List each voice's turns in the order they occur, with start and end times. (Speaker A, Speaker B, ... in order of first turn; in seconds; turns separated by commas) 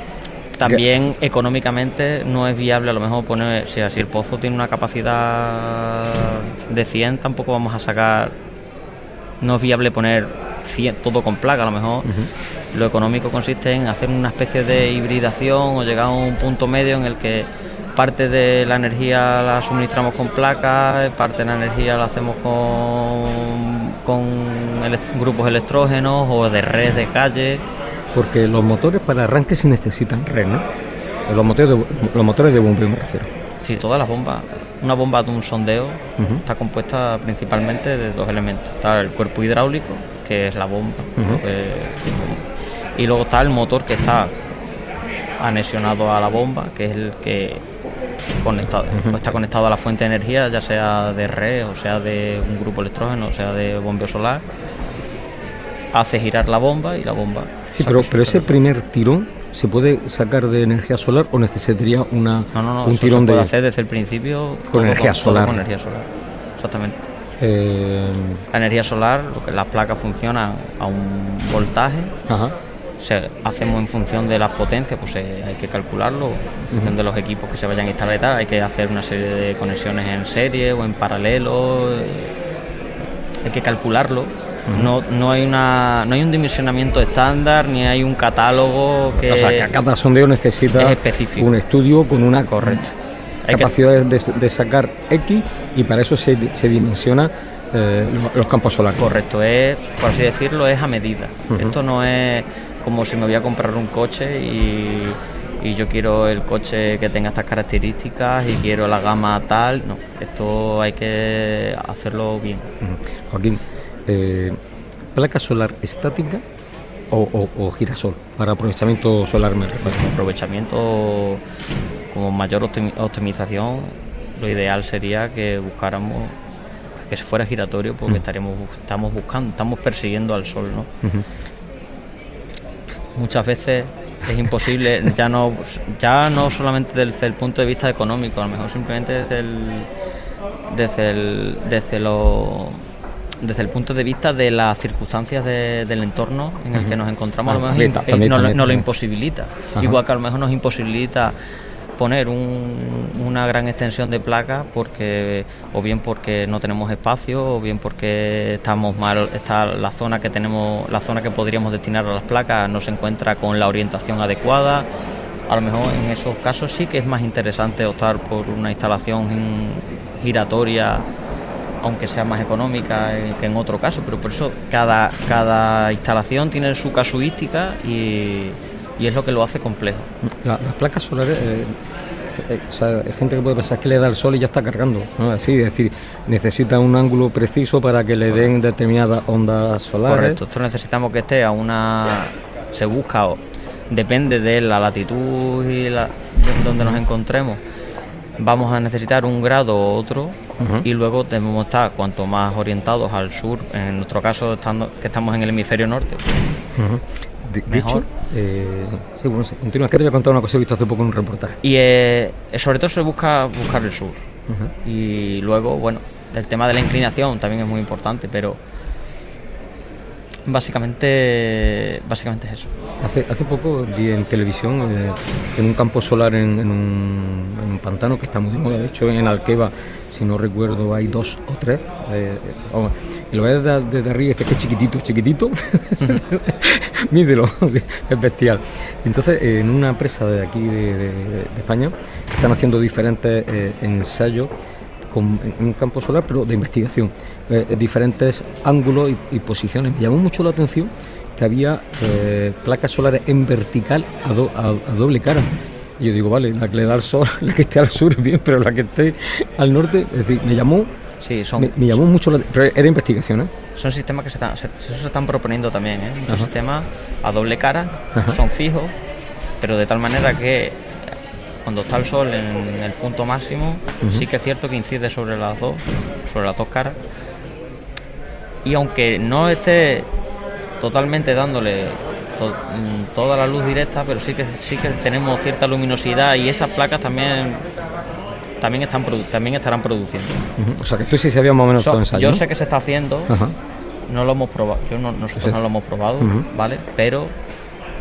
Speaker A: 0.6-8.3, Speaker A: 9.4-12.1, Speaker A: 12.7-27.6, Speaker B: 28.1-30.7, Speaker B: 31.3-33.3, Speaker A: 33.6-44.4, Speaker B: 41.2-41.4, Speaker A: 45.4-47.6, Speaker A: 48.4-54.4, Speaker B: 48.9-49.2, Speaker A: 55.9-58.5, Speaker B: 57.7-63.5, Speaker A: 62.5-67.0, Speaker B: 64.7-65.6, Speaker B: 67.4-68.4, Speaker A: 68.5-72.1, Speaker B: 72.3-72.6, Speaker A: 73.0-82.3, Speaker A: 83.4-89.7, Speaker B: 89.2-92.9, Speaker A: 90.7-91.5, Speaker A: 92.5-92.9, Speaker B: 93.5-99.0, Speaker A: 93.5-93.7, Speaker A: 99.0-112.7, Speaker B: 101.5-101.8, Speaker B: 112.8-114.6, Speaker B: 115.2-116.4, Speaker B: 117.1-120.1, Speaker A: 119.8-121.4, Speaker A: 122.1-126.4, Speaker A: 127.0-130.9, Speaker A: 133.2-139.9, Speaker A: 140.7-142.9, Speaker A: 143.4-151.3, Speaker B: 146.7-148.9, Speaker A: 152.0-164.9, Speaker A: 165.5-171.1, Speaker A: 171.8-180.1, Speaker B: 180.4-181.7, Speaker B: 182.3-190.4, Speaker A: 190.1-197.6, Speaker A: 198.4-206.4, Speaker B: 200.6-200.9, Speaker B: 206.8-211.6, Speaker A: 207.7-208.1, Speaker A: 211.6-214.2, Speaker A: 214.8-218.6, Speaker A: 220.5-222.7, Speaker B: 223.0-244.5, Speaker B: 245.1-255.5, Speaker B: 256.0-260.9, Speaker A: 261.2-262.0, Speaker B: 261.6-263.5, Speaker A: 263.8-268.9, Speaker A: 269.6-271.1, Speaker A: 271.6-277.0, Speaker B: 274.0-274.3, Speaker A: 278.6-280.1, Speaker A: 280.8-287.7, Speaker A: 288.6-290.4, Speaker B: 290.6-292.4, Speaker A: 291.8-293.4, Speaker B: 293.3-293.6, Speaker A: 294.1-297.4, Speaker B: 296.2-296.5